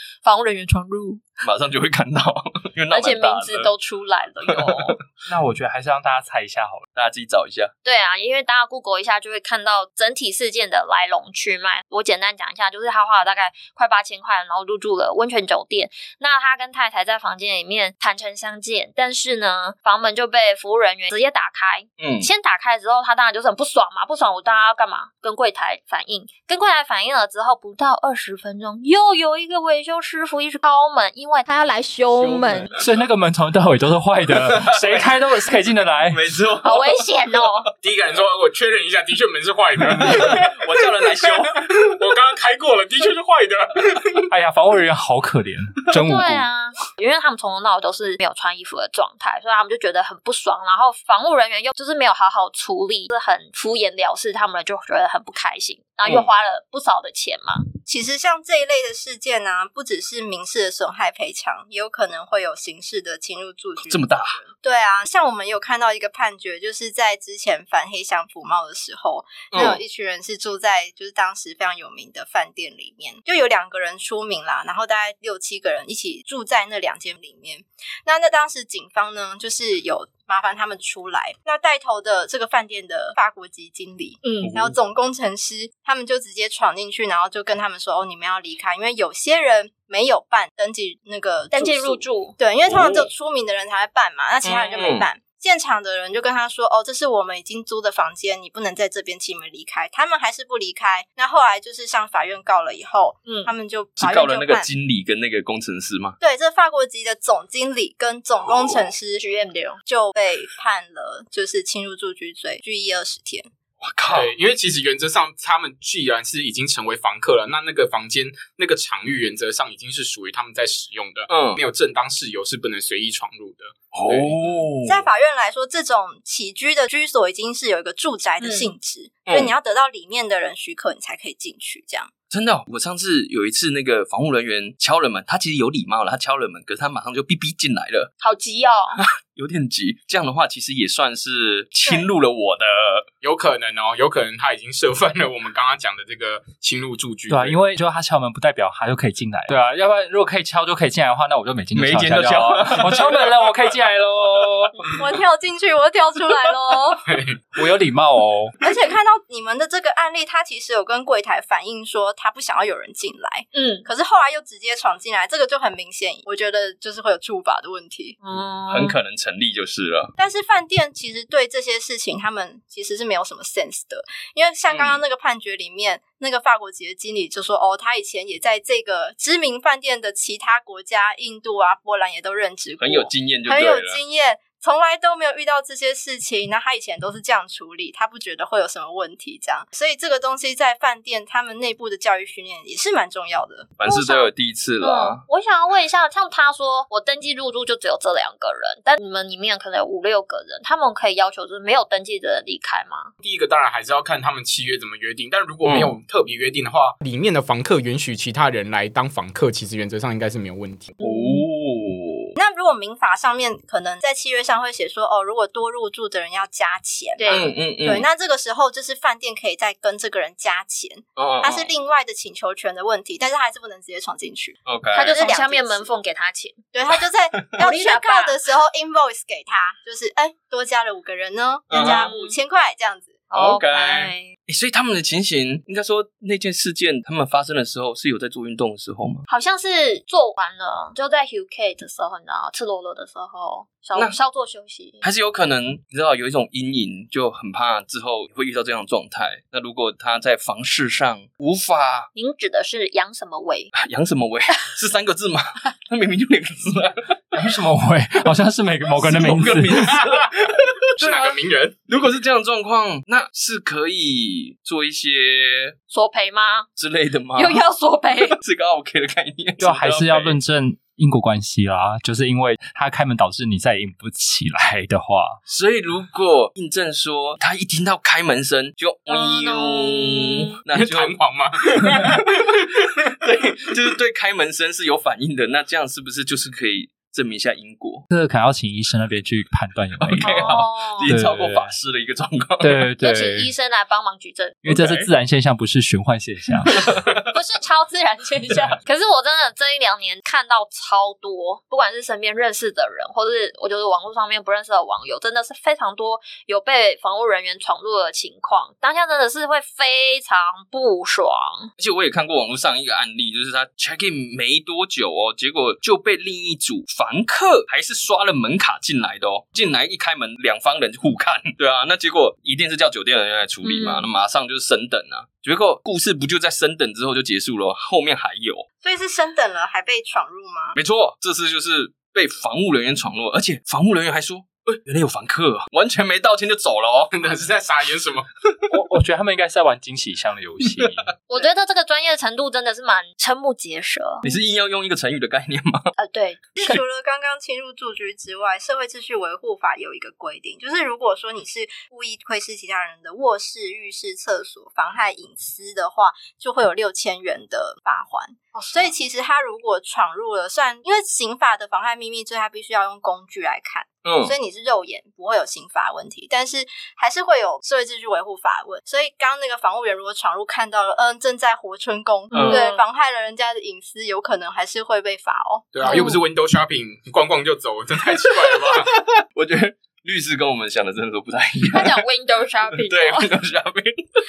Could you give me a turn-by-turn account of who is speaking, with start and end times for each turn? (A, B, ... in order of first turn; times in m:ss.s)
0:00.2-0:01.4 A
0:01.4-0:03.7 B
0:02.9-0:05.0 A
0:04.5-0:04.9 B
0:05.3-0:06.8 C
0:06.9-0:07.7 B
0:07.8-0:32.7 A
0:22.0-0:22.3 B
0:32.1-0:32.7 B
0:32.8-0:36.2 C
0:34.4-0:35.1 B
0:36.1-0:37.0 B
0:36.6-0:37.7 A
0:37.8-0:44.3 D
0:39.9-0:41.6 B
0:44.3-0:46.4 C
0:45.9-0:57.7 A
0:56.0-0:56.3 B
0:57.9-1:44.7 E
1:03.8-1:04.4 B
1:09.5-1:09.8 B
1:24.2-1:24.5 A
1:24.4-1:24.8 B
1:31.5-1:32.4 A
1:32.6-1:33.1 B
1:34.4-1:35.1 B
1:43.2-1:43.5 A
1:44.0-1:46.2 B
1:46.2-1:49.2 E
1:48.4-1:48.9 B
1:49.2-1:49.8 A
1:49.8-1:53.5 E
1:53.8-1:54.3 B
1:54.1-2:04.4 D
2:01.3-2:01.6 B
2:03.9-2:05.0 B
2:04.8-2:12.1 E
2:08.4-2:08.7 A
2:09.3-2:09.5 B
2:12.3-2:18.1 B
2:18.2-2:19.0 A
2:19.0-2:23.1 B
2:23.2-2:27.6 D
2:27.3-2:34.8 C
2:31.8-2:33.2 B
2:35.0-2:37.0 E
2:36.4-2:37.0 A
2:37.1-2:37.4 D
2:37.5-2:38.5 C
2:38.6-2:48.2 E
2:43.5-2:43.9 A
2:48.2-2:49.0 A
2:48.7-2:50.1 B
2:50.2-3:13.7 E
2:54.7-2:55.0 B
3:02.8-3:04.0 B
3:13.8-3:15.2 B
3:13.8-3:14.3 A
3:14.8-3:23.1 A
3:23.2-3:30.9 D
3:25.6-3:25.9 B
3:31.0-3:31.4 A
3:31.0-3:32.4 B
3:32.4-3:45.9 E
3:37.2-3:37.5 A
3:37.3-3:38.1 B
3:41.2-3:41.7 B
3:44.6-3:45.2 B
3:44.9-3:46.6 A
3:46.7-3:53.2 E
3:47.6-3:48.4 A
3:51.7-3:52.1 B
3:51.7-3:52.4 A
3:53.3-3:54.3 A
3:53.3-3:59.2 B
3:59.3-4:05.0 A
4:05.0-4:12.1 B
4:12.1-4:13.7 A
4:13.7-4:17.3 B
4:17.3-4:20.0 C
4:18.9-4:21.4 B
4:21.0-4:21.9 D
4:21.9-4:25.7 B
4:25.9-4:26.7 A
4:26.8-4:27.6 B
4:27.4-4:28.4 A
4:28.2-4:30.4 B
4:29.6-4:35.4 C
4:35.5-4:41.2 B
4:39.1-4:40.5 A
4:40.7-4:43.1 D
4:41.7-4:42.6 B
4:43.2-4:48.1 B
4:48.1-4:51.7 C
4:50.0-4:52.9 B
4:50.2-4:51.1 A
4:52.6-4:53.5 C
4:53.0-4:54.6 A
4:54.6-4:56.9 C
4:54.7-4:55.1 B
4:56.7-4:57.2 B
4:57.3-5:11.7 A
5:11.8-5:28.6 B
5:23.6-5:24.1 A
5:28.8-5:30.8 E
5:30.7-5:37.1 B
5:37.1-5:38.2 D
5:38.7-5:41.1 C
5:41.3-5:44.3 A
5:44.2-5:45.9 B
5:46.0-5:46.5 A
5:46.6-6:16.0 E
5:58.5-5:58.9 A
6:04.0-6:04.4 B
6:12.3-6:12.8 A
6:12.3-6:12.6 B
6:15.7-6:18.9 D
6:15.8-6:16.2 A
6:18.1-6:22.0 B
6:21.7-6:23.3 A
6:22.7-6:24.1 B